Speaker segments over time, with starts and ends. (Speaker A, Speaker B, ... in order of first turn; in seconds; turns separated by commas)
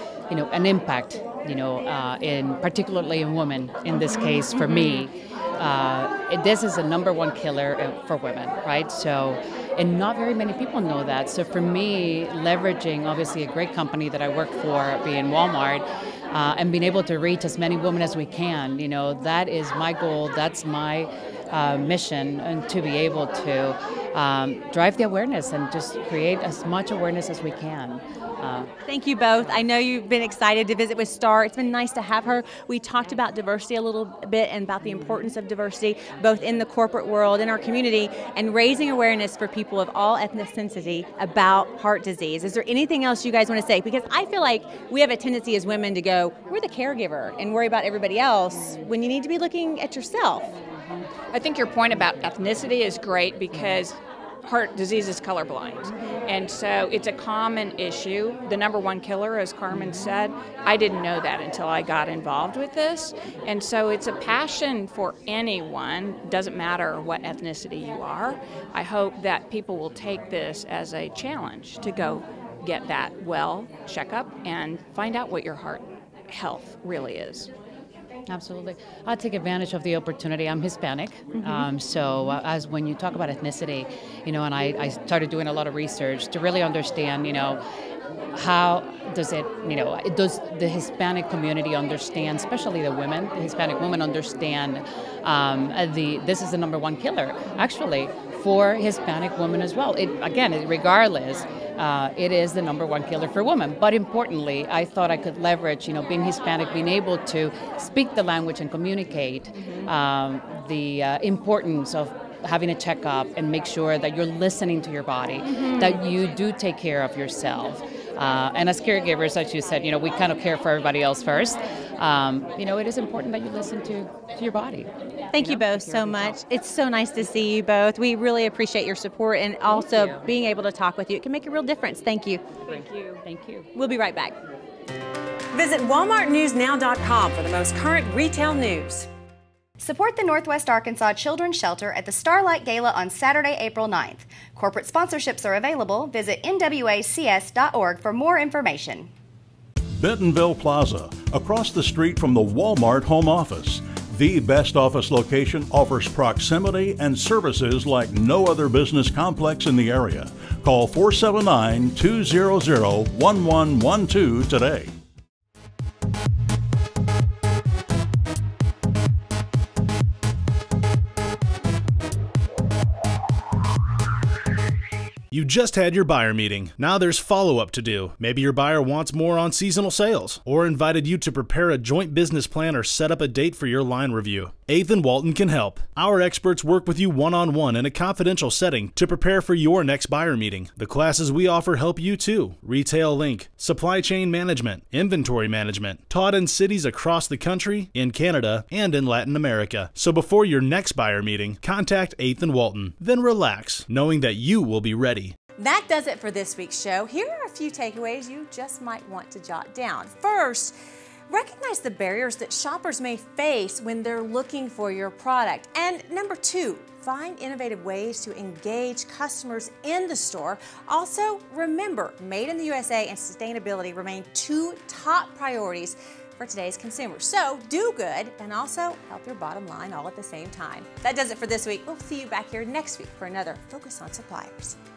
Speaker A: 0.3-28.7, Speaker B: 3.9-5.0, Speaker C: 28.9-50.5, Speaker B: 51.3-77.5, Speaker A: 78.3-87.6, Speaker B: 81.3-81.7, Speaker A: 88.3-126.4, Speaker B: 109.5-109.9, Speaker B: 115.4-116.0, Speaker C: 125.3-132.4, Speaker A: 129.8-130.2, Speaker B: 132.7-133.2, Speaker C: 133.7-134.3, Speaker C: 135.5-139.1, Speaker D: 139.8-149.1, Speaker E: 150.0-164.9, Speaker F: 175.3-205.3, Speaker C: 205.6-210.7, Speaker C: 211.3-234.8